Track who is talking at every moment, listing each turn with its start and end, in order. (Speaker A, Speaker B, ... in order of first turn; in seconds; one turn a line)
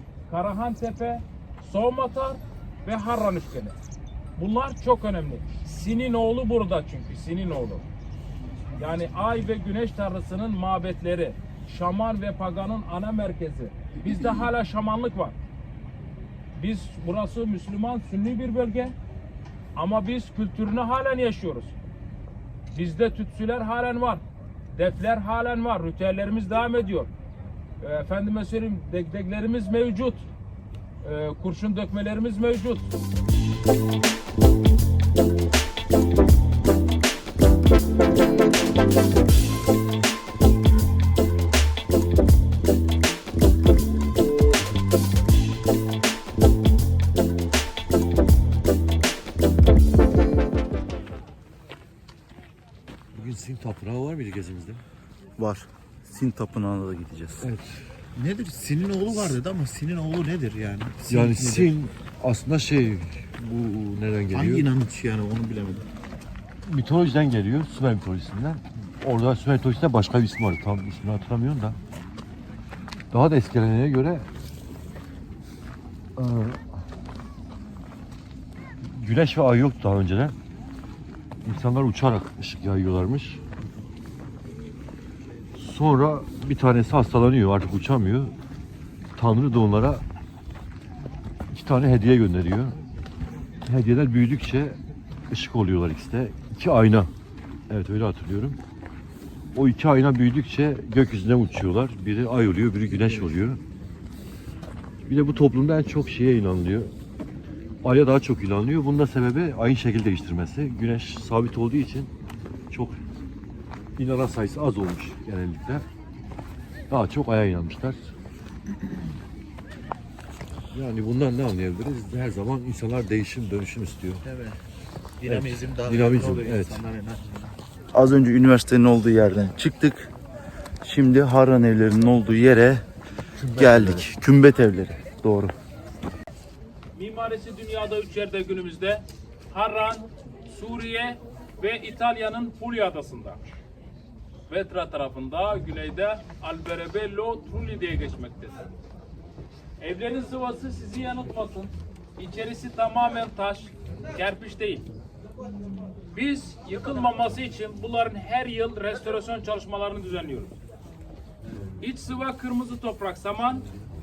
Speaker A: 0.3-3.7
Speaker A: 4.4-7.8
Speaker A: 8.8-15.3
Speaker A: 16.6-18.9
Speaker A: 19.8-21.7
Speaker A: 22.7-24.2
Speaker A: 24.7-27.1
Speaker A: 27.8-30.2
Speaker A: 31.0-32.9
Speaker B: 53.1-54.8
Speaker C: 55.4-57.5
Speaker B: 57.4-58.0
Speaker D: 58.1-61.7
Speaker B: 61.0-64.7
Speaker D: 64.3-65.8
Speaker B: 66.7-71.8
Speaker B: 73.1-74.3
Speaker B: 76.2-76.8
Speaker B: 78.8-80.3
Speaker B: 81.4-83.4
Speaker B: 85.6-88.3
Speaker B: 89.2-90.0
Speaker B: 91.5-92.8
Speaker B: 93.6-94.8
Speaker B: 95.3-97.1
Speaker B: 97.7-98.6
Speaker B: 99.5-103.6
Speaker B: 105.1-106.9
Speaker B: 107.8-112.1
Speaker B: 112.7-113.0
Speaker B: 114.0-115.8
Speaker B: 116.9-118.1
Speaker B: 120.7-124.2
Speaker D: 124.2-124.5
Speaker D: 125.2-127.5
Speaker B: 125.2-126.8
Speaker C: 127.9-130.1
Speaker C: 130.8-132.8
Speaker B: 133.4-134.1
Speaker C: 133.5-135.5
Speaker A: 136.9-143.4
Speaker A: 144.5-148.7
Speaker A: 149.8-154.8
Speaker A: 156.1-160.5
Speaker A: 161.8-163.7